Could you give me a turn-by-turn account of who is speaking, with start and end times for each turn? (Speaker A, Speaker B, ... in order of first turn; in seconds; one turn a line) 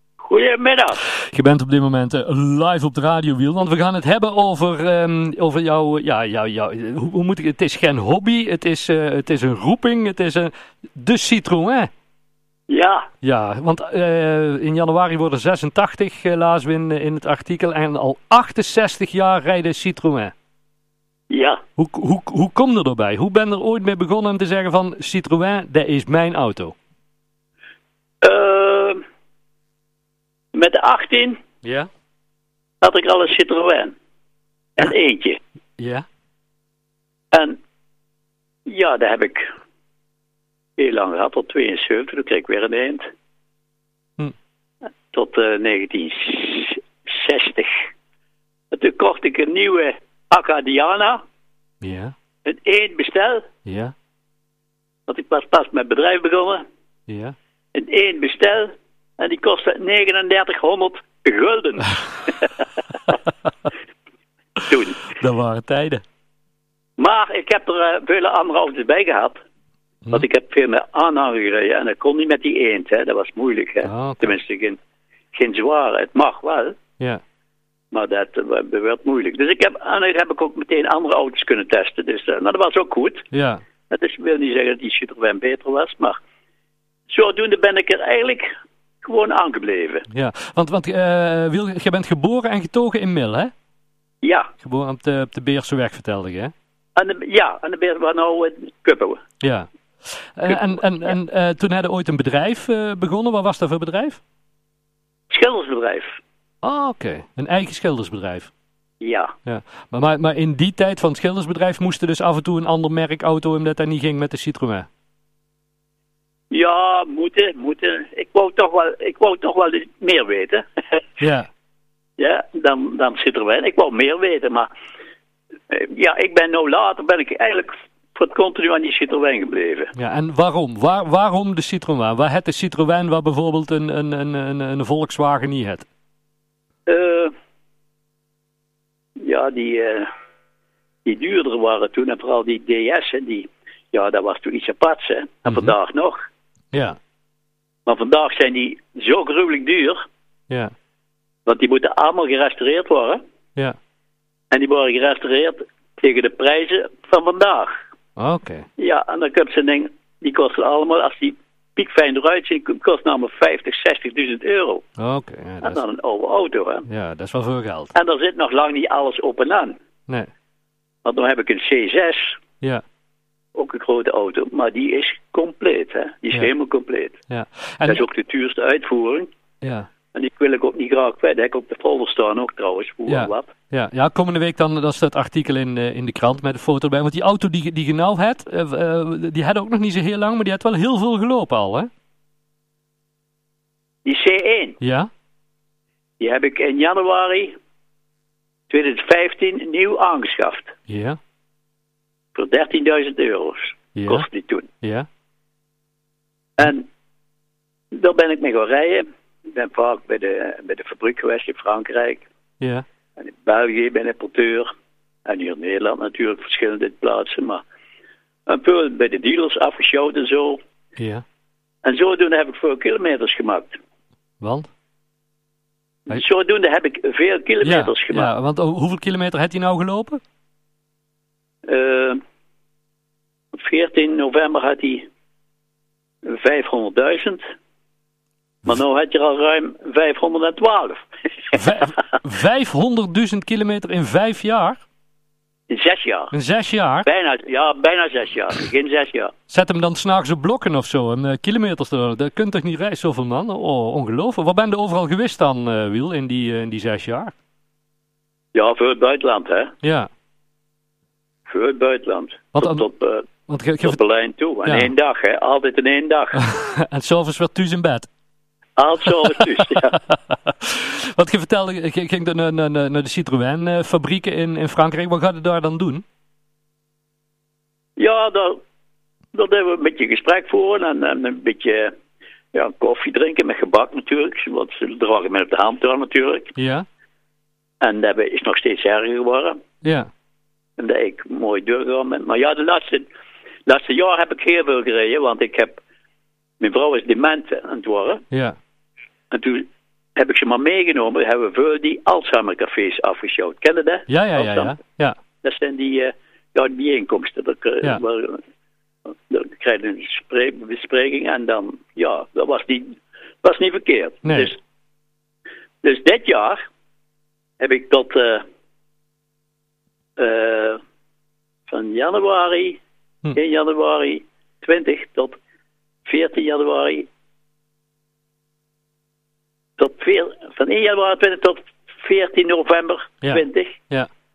Speaker A: 0.2-1.0
Speaker B: 1.3-11.9
Speaker A: 12.7-13.1
Speaker B: 13.2-20.3
Speaker A: 21.3-21.6
Speaker B: 21.8-26.7
Speaker A: 28.2-29.0
Speaker A: 30.5-31.4
Speaker B: 31.6-31.9
Speaker A: 32.8-33.9
Speaker A: 34.8-35.4
Speaker B: 35.8-36.0
Speaker A: 37.3-37.6
Speaker A: 38.6-39.4
Speaker A: 40.8-43.0
Speaker A: 45.1-47.8
Speaker A: 48.7-51.2
Speaker B: 51.8-52.1
Speaker A: 52.4-53.5
Speaker B: 53.6-53.9
Speaker A: 55.1-56.6
Speaker B: 57.1-57.3
Speaker A: 57.7-62.6
Speaker A: 64.7-65.0
Speaker B: 65.1-66.0
Speaker A: 67.0-69.4
Speaker A: 70.1-74.8
Speaker B: 73.8-74.3
Speaker A: 75.3-76.8
Speaker A: 77.9-83.2
Speaker B: 83.3-83.6
Speaker A: 83.9-86.2
Speaker A: 87.1-88.5
Speaker A: 89.0-90.0
Speaker B: 90.1-93.5
Speaker A: 94.2-94.5
Speaker B: 94.6-96.5
Speaker A: 97.0-99.2
Speaker B: 99.4-104.2
Speaker A: 105.3-106.2
Speaker B: 106.6-108.5
Speaker A: 109.0-109.3
Speaker B: 109.5-114.9
Speaker A: 116.5-121.0
Speaker B: 121.2-121.5
Speaker A: 122.2-124.7
Speaker A: 125.7-129.9
Speaker B: 129.9-135.8
Speaker A: 136.9-137.3
Speaker A: 139.2-140.1
Speaker A: 141.0-146.2
Speaker B: 145.5-145.7
Speaker A: 147.8-150.0
Speaker A: 151.4-153.2
Speaker A: 154.5-157.7
Speaker B: 158.2-158.7
Speaker A: 158.8-164.8
Speaker B: 165.0-165.8
Speaker A: 165.6-166.8
Speaker B: 166.9-167.9
Speaker A: 167.9-169.8
Speaker A: 171.0-172.4
Speaker A: 173.5-177.1
Speaker B: 177.3-178.0
Speaker A: 177.8-179.3
Speaker B: 179.6-179.9
Speaker A: 180.1-183.5
Speaker B: 183.1-191.9
Speaker A: 194.0-194.8
Speaker B: 194.8-195.1
Speaker A: 196.2-197.5
Speaker A: 198.7-200.7
Speaker B: 200.9-201.2
Speaker A: 202.3-204.7
Speaker B: 203.9-204.2
Speaker B: 204.8-205.1
Speaker A: 206.6-206.9
Speaker A: 207.9-212.2
Speaker B: 212.6-212.8
Speaker A: 213.2-214.7
Speaker A: 215.2-217.6
Speaker A: 218.5-220.6
Speaker B: 221.0-221.2
Speaker A: 221.8-223.8
Speaker B: 224.4-224.7
Speaker A: 226.1-228.3
Speaker B: 227.6-230.2
Speaker A: 231.7-232.2
Speaker A: 233.5-235.1
Speaker A: 236.2-237.4
Speaker A: 238.6-241.6
Speaker B: 241.5-244.8
Speaker A: 245.7-246.3
Speaker B: 246.3-247.1
Speaker A: 247.0-249.3
Speaker B: 249.5-257.3
Speaker A: 258.5-259.7
Speaker B: 259.8-260.1
Speaker A: 261.5-263.3
Speaker B: 262.6-262.8
Speaker B: 263.5-264.0
Speaker A: 263.8-266.4
Speaker B: 264.6-264.9
Speaker B: 266.3-268.1
Speaker A: 268.8-270.0
Speaker B: 270.3-276.0
Speaker A: 278.0-278.6
Speaker A: 279.3-281.9
Speaker A: 282.5-286.5
Speaker B: 286.6-286.9
Speaker A: 287.8-289.6
Speaker B: 289.8-290.1
Speaker A: 290.8-293.1
Speaker A: 293.6-295.8
Speaker A: 296.6-298.2
Speaker A: 299.3-304.8
Speaker B: 304.1-305.1
Speaker A: 305.4-308.4
Speaker A: 309.3-314.6
Speaker B: 314.2-314.5
Speaker A: 315.8-316.6
Speaker A: 317.6-318.4
Speaker A: 320.2-320.8
Speaker A: 321.7-322.8
Speaker A: 323.3-325.4
Speaker A: 326.0-327.1
Speaker A: 329.8-333.8
Speaker B: 333.2-334.1